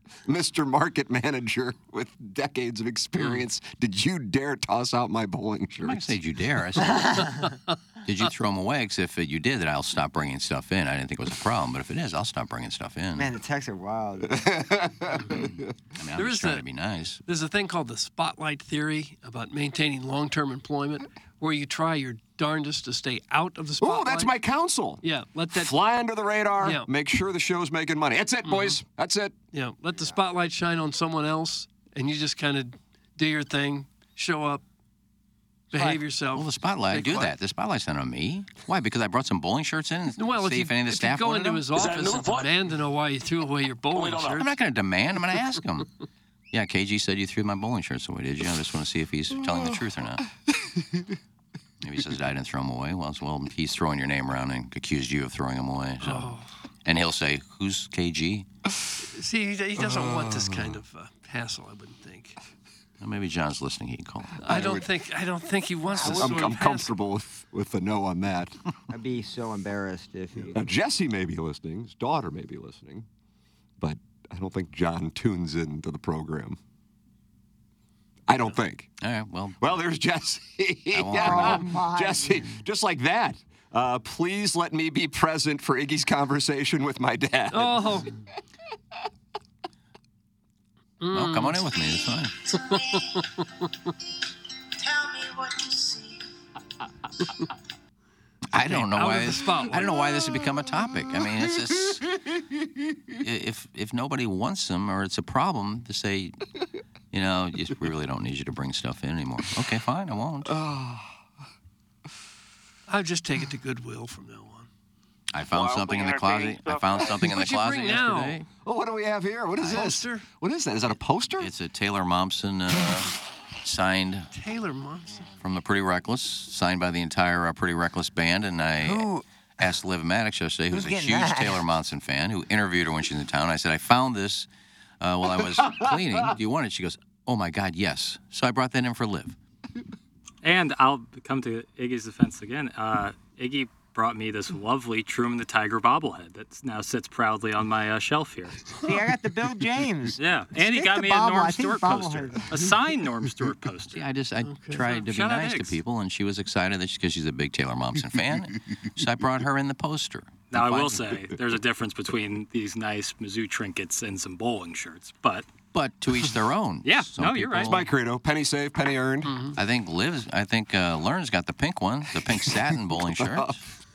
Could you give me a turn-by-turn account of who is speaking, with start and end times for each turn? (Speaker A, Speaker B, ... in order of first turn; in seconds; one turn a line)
Speaker A: 0.2-6.2
Speaker B: 5.8-7.3
Speaker C: 6.9-7.5
Speaker B: 8.1-13.3
Speaker C: 13.2-14.8
Speaker A: 14.3-15.6
Speaker B: 15.9-17.2
Speaker D: 16.1-16.6
Speaker D: 17.3-24.3
Speaker A: 23.8-29.4
Speaker D: 25.0-25.8
Speaker D: 26.6-26.9
Speaker D: 28.5-28.8
Speaker D: 29.5-34.6
Speaker D: 35.7-37.4
Speaker B: 36.3-41.8
Speaker D: 40.1-44.5
Speaker B: 44.2-45.9
Speaker B: 46.5-50.2
Speaker B: 51.8-58.5
Speaker D: 56.0-56.5
Speaker D: 59.1-62.4
Speaker A: 59.8-60.8
Speaker B: 63.0-64.6
Speaker D: 64.4-66.9
Speaker A: 64.5-64.9
Speaker C: 66.0-66.5
Speaker A: 66.0-68.6
Speaker C: 68.9-70.6
Speaker A: 70.5-73.1
Speaker A: 73.8-76.6
Speaker A: 78.3-78.9
Speaker B: 79.0-79.8
Speaker A: 79.6-88.2
Speaker B: 80.9-81.7
Speaker C: 81.1-82.5
Speaker D: 87.5-88.1
Speaker D: 91.0-91.7
Speaker B: 91.1-92.3
Speaker D: 92.5-93.7
Speaker B: 98.5-102.1
Speaker D: 98.5-100.0
Speaker B: 103.2-106.4
Speaker B: 107.1-110.5
Speaker A: 110.4-111.2
Speaker D: 112.9-114.7
Speaker B: 115.3-118.5
Speaker D: 117.1-118.4
Speaker A: 118.6-121.5
Speaker D: 119.6-120.3
Speaker B: 121.4-124.3
Speaker D: 124.3-125.3
Speaker B: 125.4-129.1
Speaker C: 128.8-129.2
Speaker B: 129.6-134.5
Speaker C: 130.7-131.6
Speaker B: 135.0-139.3
Speaker E: 140.4-148.7
Speaker C: 148.8-152.7
Speaker E: 150.2-154.0
Speaker B: 153.9-161.2
Speaker D: 154.4-154.8
Speaker E: 154.8-155.8
Speaker E: 160.5-165.5
Speaker B: 165.7-167.8
Speaker E: 166.8-167.7
Speaker A: 167.6-169.3
Speaker D: 169.2-169.6
Speaker B: 169.5-173.6
Speaker A: 172.3-173.6